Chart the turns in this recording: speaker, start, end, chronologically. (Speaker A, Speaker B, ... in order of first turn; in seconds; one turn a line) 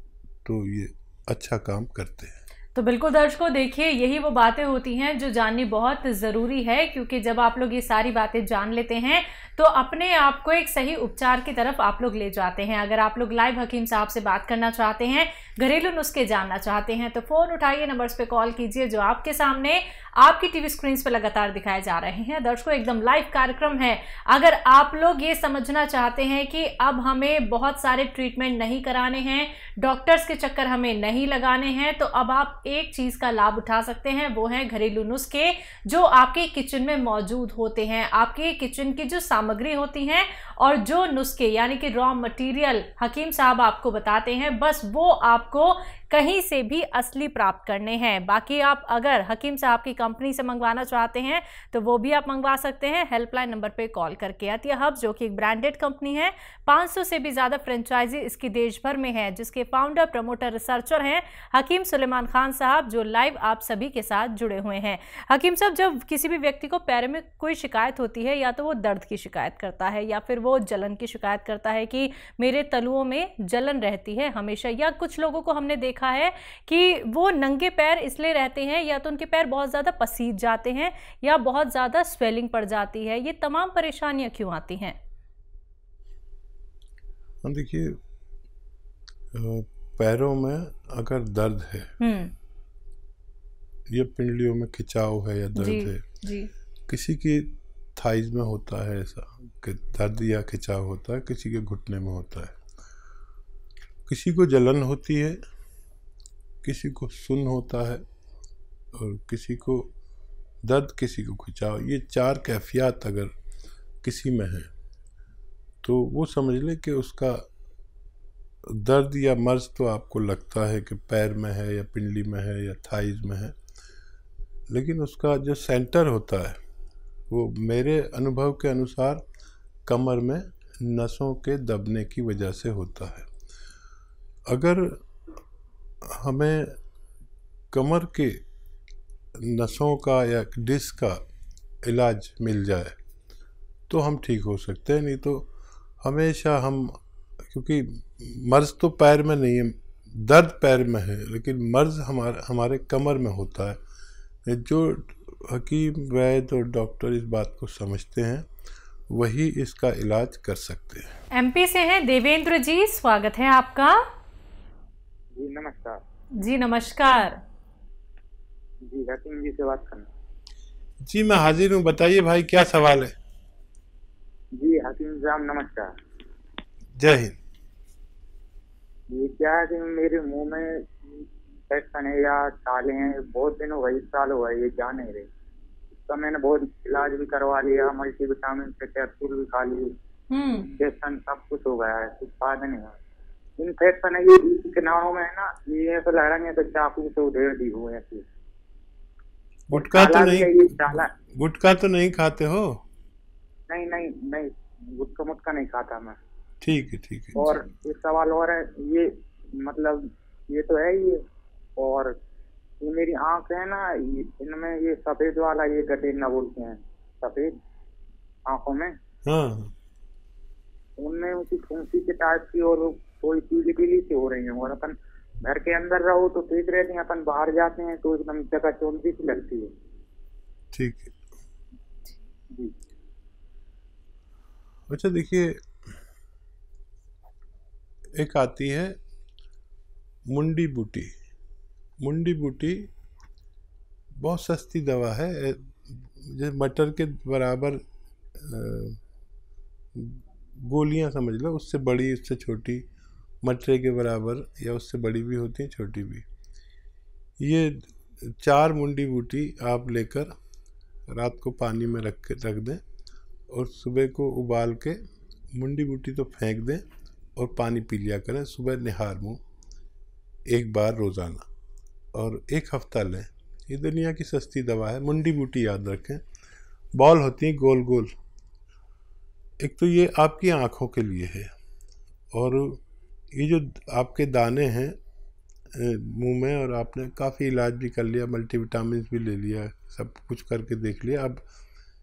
Speaker A: 0.4-2.4
Speaker B: 2.7-85.0
Speaker A: 87.4-88.0
Speaker A: 89.3-91.9
Speaker B: 92.0-92.3
Speaker A: 93.9-96.0
Speaker B: 95.6-96.5
Speaker A: 96.9-102.6
Speaker A: 104.1-105.4
Speaker A: 106.6-108.0
Speaker A: 108.9-109.9
Speaker A: 110.6-113.3
Speaker A: 114.0-114.7
Speaker A: 115.8-117.5
Speaker A: 118.7-123.5
Speaker A: 124.7-126.6
Speaker A: 127.3-129.2
Speaker A: 129.9-133.3
Speaker A: 134.5-135.0
Speaker A: 136.2-136.8
Speaker A: 137.7-138.4
Speaker A: 139.4-141.2
Speaker A: 141.8-142.9
Speaker A: 143.9-145.5
Speaker A: 146.0-147.0
Speaker A: 147.5-153.8
Speaker A: 154.5-158.5
Speaker A: 159.1-161.1
Speaker B: 161.3-164.0
Speaker C: 165.3-166.0
Speaker B: 166.4-167.4
Speaker C: 168.8-170.1
Speaker A: 171.0-173.1
Speaker C: 174.6-175.9
Speaker A: 177.0-177.3
Speaker C: 179.1-185.3
Speaker C: 186.1-189.9
Speaker B: 190.3-190.7
Speaker C: 190.8-192.9
Speaker C: 193.6-198.2
Speaker A: 199.7-202.8
Speaker C: 199.7-201.1
Speaker C: 203.7-206.2
Speaker A: 206.6-207.6
Speaker C: 207.3-209.1
Speaker C: 209.6-211.2
Speaker C: 211.8-212.1
Speaker C: 212.8-217.5
Speaker C: 218.5-218.9
Speaker A: 219.2-219.7
Speaker C: 221.0-229.7
Speaker A: 230.7-231.1
Speaker A: 234.9-235.6
Speaker A: 238.2-239.0
Speaker A: 240.3-241.1
Speaker A: 242.0-242.9
Speaker A: 244.2-247.8
Speaker A: 248.3-249.0
Speaker A: 249.9-252.8
Speaker A: 253.4-256.2
Speaker A: 257.4-260.3
Speaker A: 261.1-262.8
Speaker A: 263.5-265.0
Speaker A: 265.6-266.8
Speaker A: 267.4-269.4
Speaker A: 270.5-271.5
Speaker A: 272.1-276.2
Speaker A: 276.9-278.1
Speaker A: 279.6-281.5
Speaker A: 282.3-282.8
Speaker A: 283.3-284.9
Speaker A: 285.7-291.4